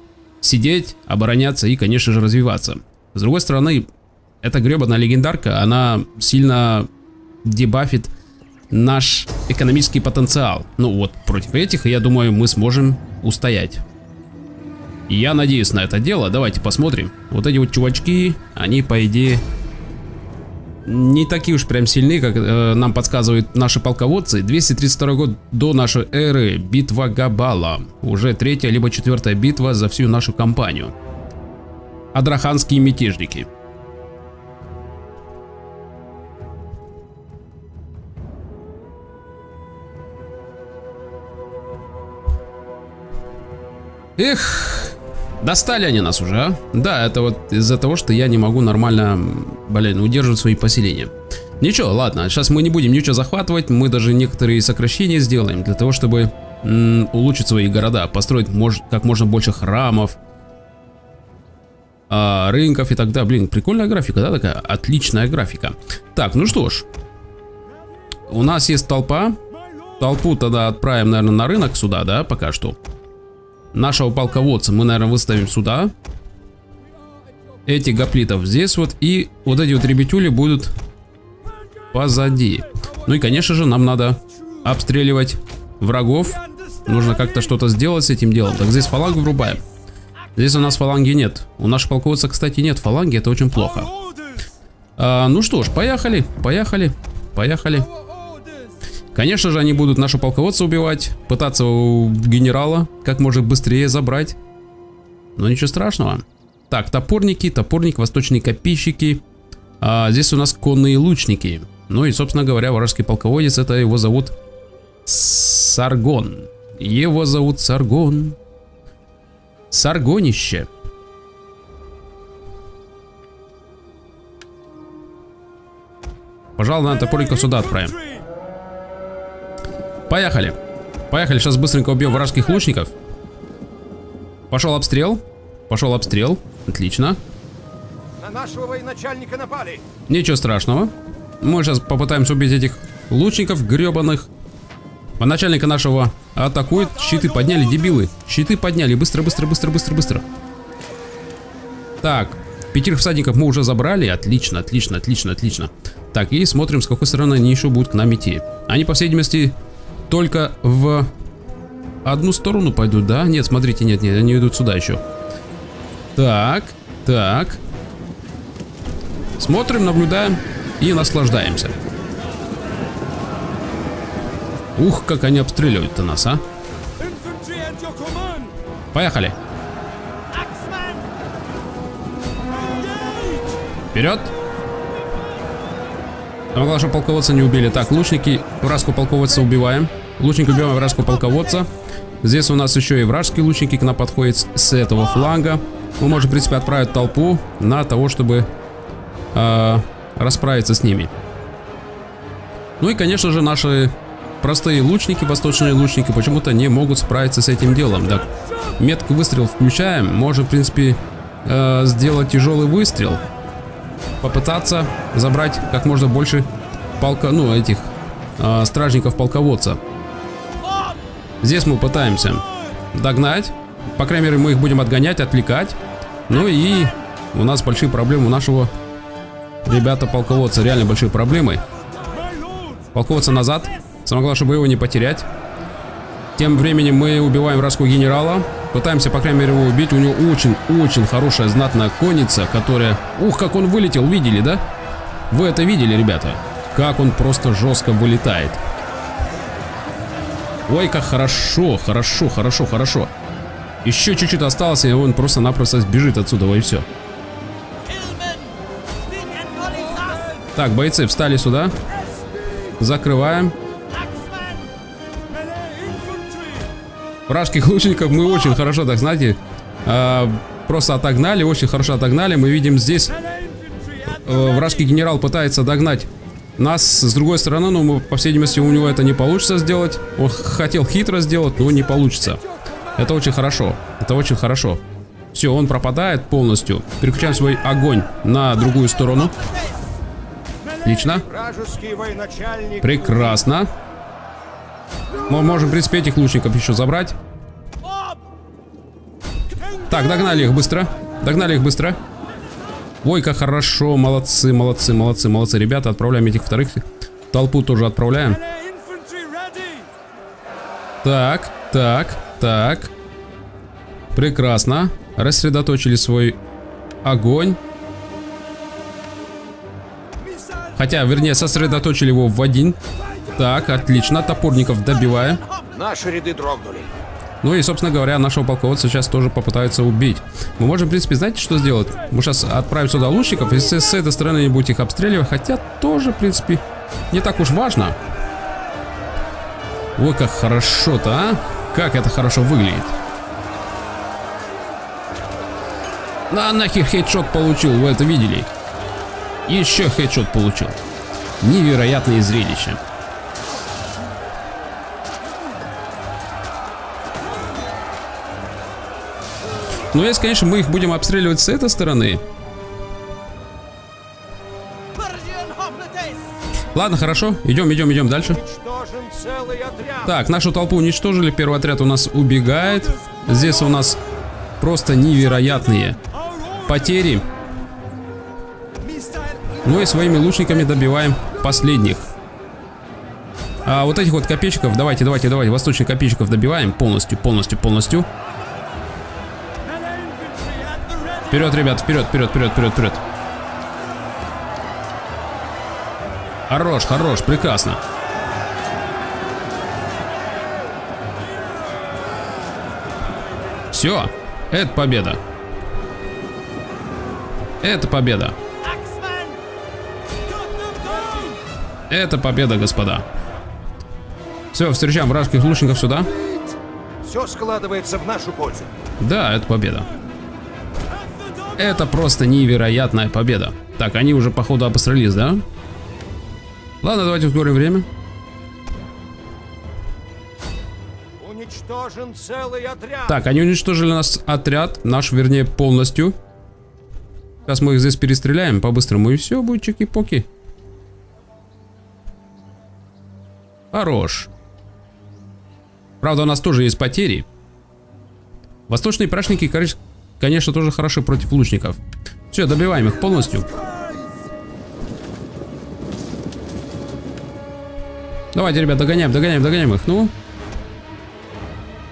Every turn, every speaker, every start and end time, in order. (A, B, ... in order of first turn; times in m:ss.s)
0:00.4-0:03.9 A
0:04.4-0:06.9 A
0:07.4-0:08.1 A
0:08.7-0:13.8 A
0:15.1-0:19.4 A
0:20.8-0:30.9 A
0:32.1-0:33.5 A
0:44.2-1:00.2 A
1:02.1-1:06.8 A
1:08.3-1:09.4 A
1:10.0-1:12.8 A
1:13.7-1:15.9 A
1:17.6-1:20.7 A
1:21.9-1:29.6 A
1:30.4-1:33.9 A
1:34.0-1:34.4 B
1:35.0-1:37.9 A
1:38.1-1:38.7 B
1:39.1-1:44.4 A
1:45.4-1:49.2 A
1:49.8-1:54.3 A
1:55.0-1:58.4 A
1:59.7-2:00.7 A
2:06.6-2:08.0 A
2:10.1-2:10.6 A
2:11.1-2:12.9 A
2:14.5-2:17.2 A
2:18.2-2:19.8 B
2:20.1-2:24.3 A
2:25.2-2:30.2 A
2:32.0-2:39.5 A
2:40.1-2:41.1 A
2:42.0-2:45.0 A
2:46.2-2:47.6 A
2:49.4-2:51.8 A
2:54.8-2:56.4 A
2:57.3-2:58.5 B
2:58.9-2:59.4 A
3:00.3-3:01.0 B
3:02.7-3:03.6 B
3:03.9-3:04.3 A
3:06.5-3:11.7 A
3:12.2-3:18.5 A
3:19.3-3:21.1 A
3:22.8-3:33.2 A
3:34.2-3:39.8 A
3:41.4-3:45.8 A
3:46.3-3:48.7 A
3:49.6-3:51.6 A
3:52.0-3:52.8 B
3:52.9-3:55.3 A
3:56.4-4:04.6 A
4:05.3-4:08.6 A
4:10.7-4:13.1 A
4:13.8-4:16.9 A
4:17.9-4:18.5 B
4:19.1-4:20.4 B
4:20.4-4:21.7 A
4:22.8-4:23.5 A
4:24.2-4:24.5 B
4:27.3-4:33.2 A
4:34.0-4:42.4 A
4:43.0-4:44.8 A
4:45.3-4:49.4 A
4:50.8-4:51.3 A
4:51.2-4:53.4 B
4:52.8-4:53.7 A
4:55.3-4:57.2 A
4:59.9-5:02.0 A
5:03.0-5:08.4 A
5:08.7-5:09.8 B
5:11.0-5:12.9 A
5:14.1-5:16.4 A
5:17.0-5:17.6 A
5:20.7-5:22.8 A
5:23.4-5:25.4 A
5:25.6-5:27.0 B
5:27.4-5:38.0 A
5:40.0-5:42.9 A
5:46.3-5:48.5 A
5:49.5-5:50.8 A
5:51.4-5:52.8 A
5:59.9-6:02.2 A
6:04.9-6:06.3 B
6:06.7-6:08.4 A
6:08.2-6:10.1 B
6:10.0-6:14.0 A
6:14.6-6:16.0 A
6:16.6-6:17.2 A
6:18.9-6:19.6 B
6:19.6-6:22.1 A
6:23.6-6:28.1 A
6:31.3-6:33.0 A
6:36.5-6:37.8 A
6:43.7-6:45.2 A
6:47.6-6:48.4 A
6:48.8-6:49.3 B
6:50.4-6:51.4 B
6:51.9-6:53.0 A
6:54.5-6:56.1 A
6:57.0-6:58.7 B
6:59.0-6:59.9 A
7:01.6-7:05.4 A
7:06.8-7:07.9 A
7:11.2-7:13.2 B
7:13.1-7:16.1 A
7:17.4-7:20.3 A
7:23.7-7:24.3 A
7:26.0-7:27.3 A
7:28.7-7:31.8 A
7:32.3-7:33.5 A
7:38.3-7:40.1 A